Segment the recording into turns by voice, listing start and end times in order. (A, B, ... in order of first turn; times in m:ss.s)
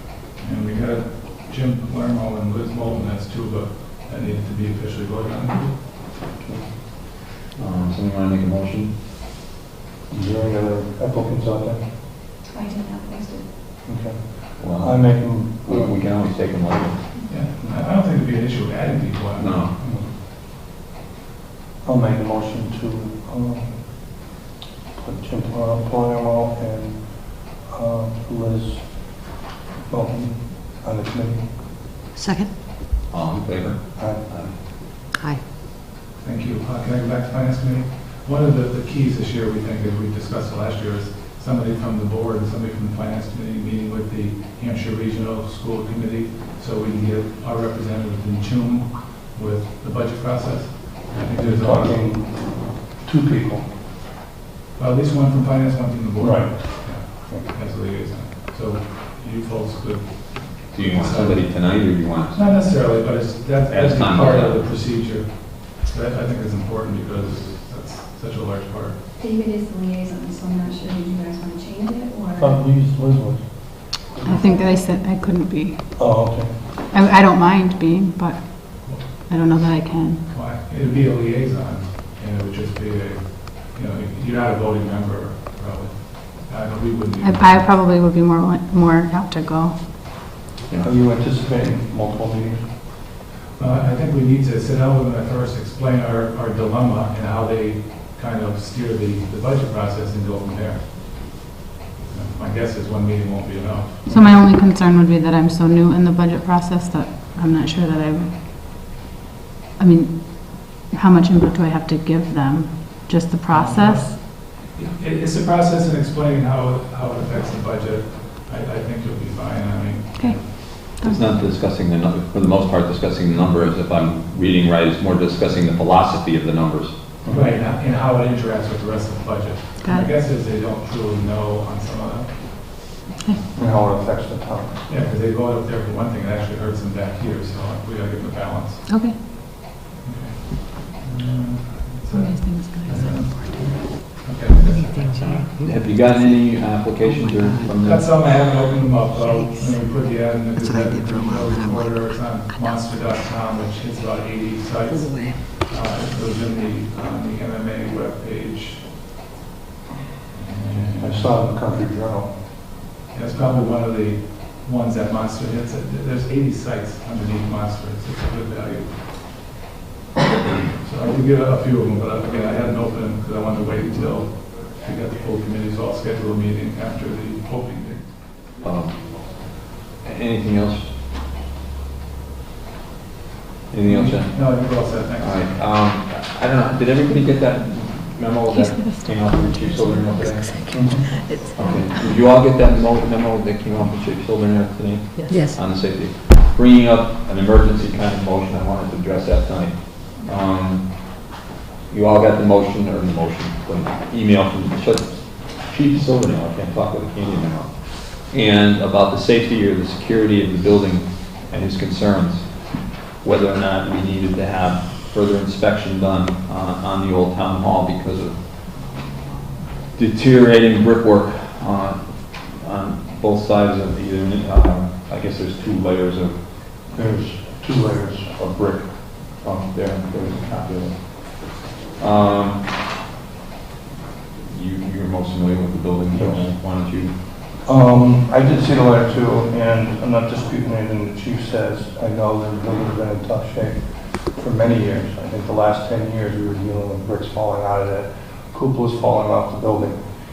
0:00.4-0:05.8 A
0:06.4-0:06.7 B
0:07.5-0:08.9 B
0:10.1-0:11.8 C
0:12.5-0:13.5 D
0:13.8-0:16.0 C
0:14.6-0:17.0 B
0:17.3-0:20.0 A
0:19.4-0:19.7 B
0:19.8-0:20.1 C
0:21.8-0:24.2 C
0:25.0-0:29.2 C
0:29.9-0:31.5 C
0:32.2-0:32.5 E
0:33.1-0:34.6 B
0:34.0-0:34.3 C
0:35.2-0:35.4 E
0:36.2-0:52.0 A
0:51.4-0:53.7 C
0:54.8-1:01.8 A
0:56.2-0:57.5 C
1:00.7-1:02.5 B
1:02.3-1:09.0 A
1:03.7-1:04.6 B
1:09.2-1:12.6 D
1:12.3-1:13.9 C
1:14.2-1:16.0 F
1:14.3-1:14.6 D
1:16.0-1:16.6 C
1:16.9-1:20.2 F
1:18.9-1:19.3 A
1:20.2-1:27.7 A
1:27.2-1:29.8 F
1:30.8-1:32.6 C
1:33.6-1:41.3 A
1:42.1-1:44.3 A
1:44.1-1:48.4 F
1:49.8-1:54.2 F
1:53.5-2:00.5 A
2:00.2-2:00.4 F
2:00.7-2:06.9 B
2:07.2-2:07.6 C
2:07.3-2:12.5 A
2:09.8-2:10.1 F
2:13.6-2:14.8 C
2:14.9-2:19.3 A
2:18.9-2:19.1 F
2:20.0-2:25.5 A
2:22.1-2:23.3 F
2:24.7-2:28.0 E
2:25.6-2:28.2 B
2:27.8-2:38.9 A
2:29.1-2:29.9 E
2:30.5-2:32.8 E
2:34.9-2:35.4 E
2:40.3-2:41.4 A
2:41.0-2:42.3 C
2:43.1-2:49.1 A
2:50.8-2:58.2 A
2:58.6-2:59.2 B
3:00.0-3:00.9 B
3:03.7-3:04.6 B
3:03.9-3:05.6 A
3:05.2-3:20.9 B
3:08.8-3:09.1 F
3:09.7-3:10.2 F
3:10.7-3:11.1 C
3:10.9-3:11.9 F
3:15.3-3:15.6 E
3:21.9-3:38.4 B
3:40.0-3:46.4 B
3:46.9-3:48.3 C
3:48.3-3:52.6 B
3:54.5-3:57.1 B
3:56.1-3:56.5 C
3:57.6-4:10.0 C